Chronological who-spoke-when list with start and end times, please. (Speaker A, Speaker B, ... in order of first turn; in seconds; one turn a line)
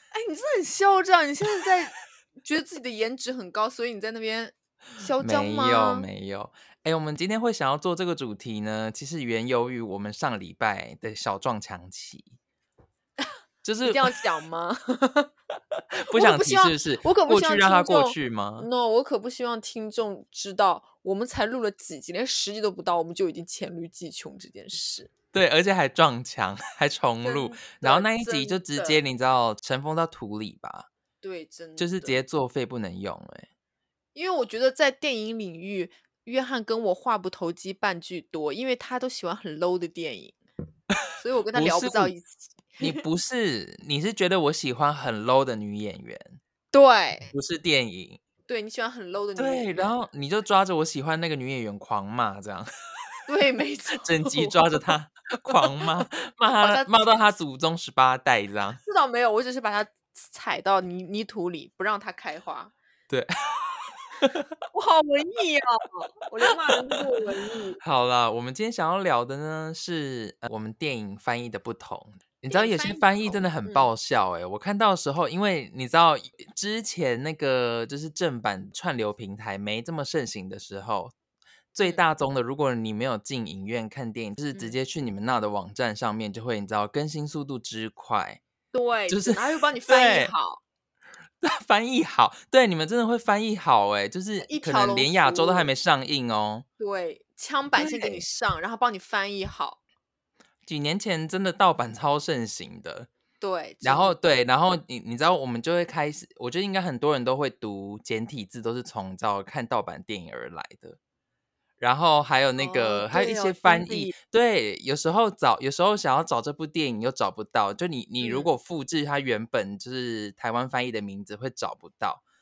Speaker A: 0.1-6.0
Speaker B: 5.2-12.3
Speaker B: 13.6-14.1
Speaker A: 13.8-15.3
Speaker B: 15.9-18.7
Speaker A: 16.0-25.1
Speaker B: 25.3-30.9
Speaker A: 27.2-29.0
Speaker A: 31.2-32.2
Speaker B: 31.8-33.5
Speaker A: 34.1-40.4
Speaker B: 41.1-42.1
Speaker A: 41.1-43.0
Speaker B: 42.8-46.4
Speaker A: 46.7-47.3
Speaker B: 47.3-48.2
Speaker A: 48.5-49.9
Speaker B: 49.4-52.7
Speaker A: 53.3-54.9
Speaker B: 54.0-58.8
Speaker A: 55.6-56.1
Speaker A: 56.6-56.9
Speaker A: 58.8-62.7
Speaker B: 63.1-64.6
Speaker A: 64.7-67.8
Speaker B: 66.5-67.0
Speaker B: 67.8-81.1
Speaker A: 72.5-73.9
Speaker B: 81.7-88.4
Speaker A: 88.7-90.6
Speaker B: 89.1-90.3
Speaker B: 91.4-96.7
Speaker A: 94.5-95.7
Speaker A: 96.8-99.8
Speaker B: 97.8-98.2
Speaker B: 100.7-103.1
Speaker A: 103.4-104.2
Speaker B: 103.8-111.0
Speaker B: 111.8-122.2
Speaker A: 112.6-114.1
Speaker A: 118.2-118.5